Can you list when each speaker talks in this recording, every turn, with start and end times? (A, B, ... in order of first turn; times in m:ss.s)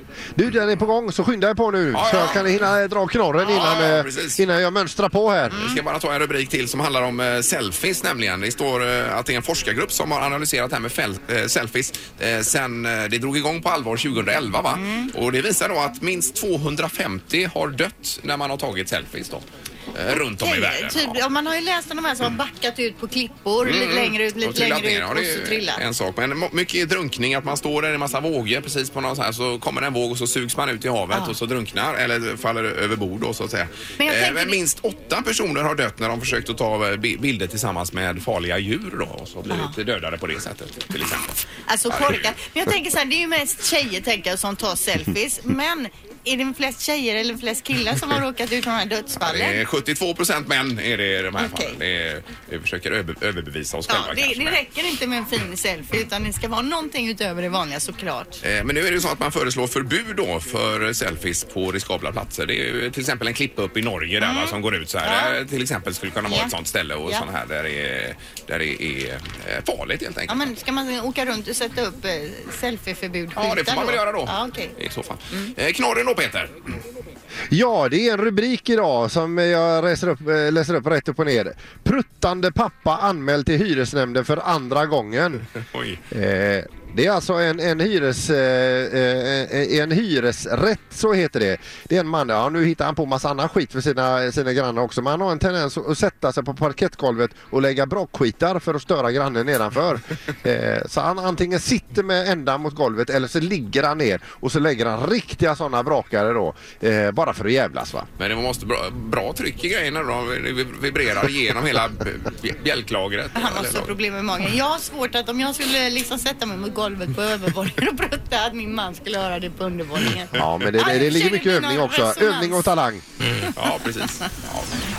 0:00.4-0:05.7 A
0:01.9-0:02.6 B
0:03.4-0:04.4 B
0:05.5-0:21.2 B
0:14.7-0:15.1 C
0:20.2-0:25.8 C
0:23.6-0:42.3 B
0:34.0-0:34.6 C
0:39.5-0:39.7 C
0:41.7-0:49.6 C
0:49.2-0:54.6 B
0:51.4-0:51.8 C
0:53.9-0:58.4 C
0:58.4-1:10.5 B
1:04.2-1:05.4 C
1:06.3-1:06.5 C
1:10.3-1:14.7 C
1:13.4-1:16.5 B
1:17.5-1:25.5 A
1:25.6-1:26.0 B
1:26.1-1:48.1 A
1:48.2-1:53.9 B
1:53.4-2:02.6 C
2:00.3-2:03.0 A
2:03.3-2:04.7 B